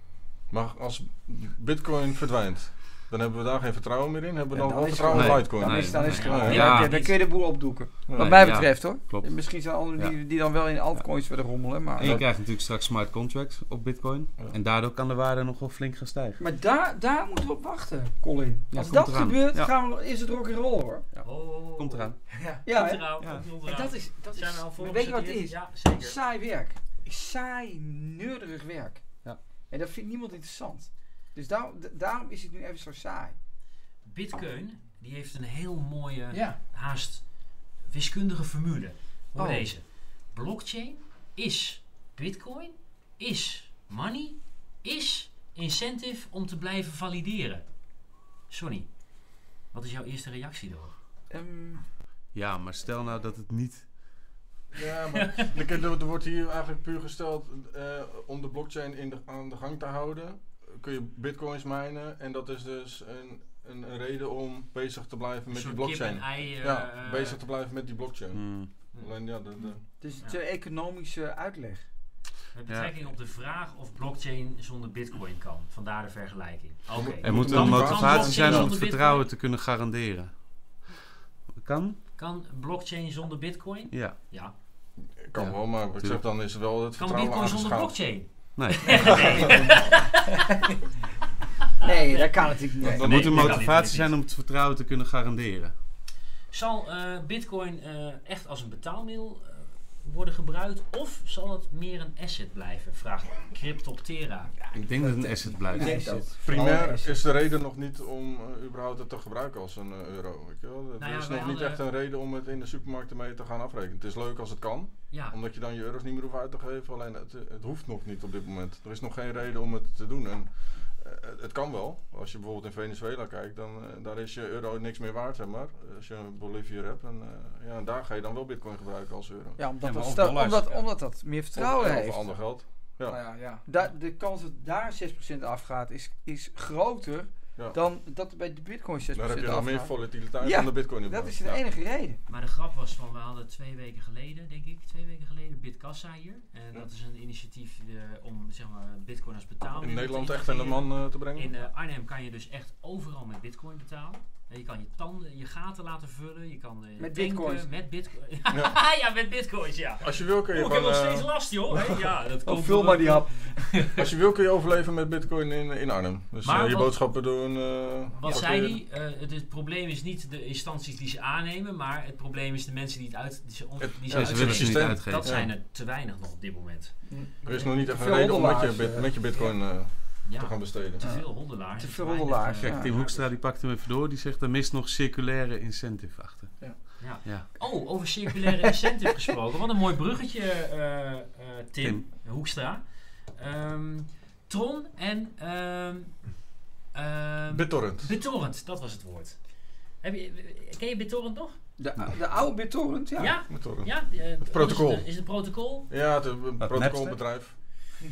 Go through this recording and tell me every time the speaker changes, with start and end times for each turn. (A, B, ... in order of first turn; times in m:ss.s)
0:00.5-0:06.7 A
0:04.5-0:12.2 B
0:05.1-0:07.1 C
0:06.0-0:07.2 D
0:08.1-0:08.4 A
0:08.2-0:10.2 C
0:12.0-0:16.4 C
0:12.0-0:12.3 A
0:16.4-0:21.0 B
0:18.7-0:19.7 C
0:21.1-0:22.2 C
0:21.2-0:22.1 D
0:22.3-0:22.6 E
0:22.6-0:29.0 B
0:22.7-0:26.2 D
0:23.2-0:23.5 C
0:29.7-0:33.4 B
0:34.0-0:37.2 D
0:36.3-0:36.6 E
0:37.9-0:47.6 D
0:39.4-0:39.7 B
0:48.5-0:48.9 D
0:49.7-0:50.9 D
0:51.3-0:51.8 B
0:52.3-0:54.3 C
0:54.7-1:09.8 A
0:55.2-0:55.5 D
1:05.5-1:07.4 D
1:08.3-1:08.7 C
1:10.0-1:11.9 B
1:12.5-1:19.3 D
1:12.7-1:13.0 C
1:17.0-1:18.8 A
1:17.2-1:20.4 C
1:21.6-1:22.0 C
1:22.2-1:24.5 D
1:23.9-1:24.3 C
1:25.0-1:28.0 A
1:25.4-1:26.2 C
1:27.0-1:30.4 D
1:28.6-1:29.5 C
1:29.4-1:29.8 E
1:31.8-1:33.2 B
1:31.8-1:34.1 D
1:32.8-1:33.6 A
1:33.0-1:35.7 C
1:36.5-1:44.6 D
1:44.7-1:46.3 C
1:44.9-1:46.2 E
1:45.7-1:47.3 B
1:46.4-2:09.6 A
1:51.0-1:51.8 D
1:55.1-1:55.4 D
2:09.6-2:12.3 B
2:09.8-2:10.8 C
2:11.6-2:13.2 A
2:13.1-2:13.6 E
2:13.7-2:22.2 B
2:19.2-2:21.4 A
2:22.3-2:44.0 D
2:29.8-2:31.5 A
2:37.0-2:37.7 B
2:38.5-2:38.8 A
2:40.0-2:42.0 A
2:42.4-2:43.7 B
2:44.0-2:48.8 A
2:46.4-2:47.0 D
2:48.2-2:57.0 D
2:53.8-2:55.5 A
2:54.1-2:55.4 C
2:57.4-3:01.0 A
2:57.8-2:59.3 B
3:00.2-3:03.3 D
3:01.0-3:02.9 B
3:02.6-3:07.5 C
3:07.0-3:12.8 D
3:11.8-3:12.0 C
3:13.3-3:16.4 D
3:16.9-3:19.4 D
3:17.5-3:18.1 A
3:20.0-3:21.6 D
3:21.8-3:23.4 B
3:23.2-3:25.9 D
3:23.5-3:25.1 A
3:25.9-3:27.6 A
3:26.6-3:27.2 C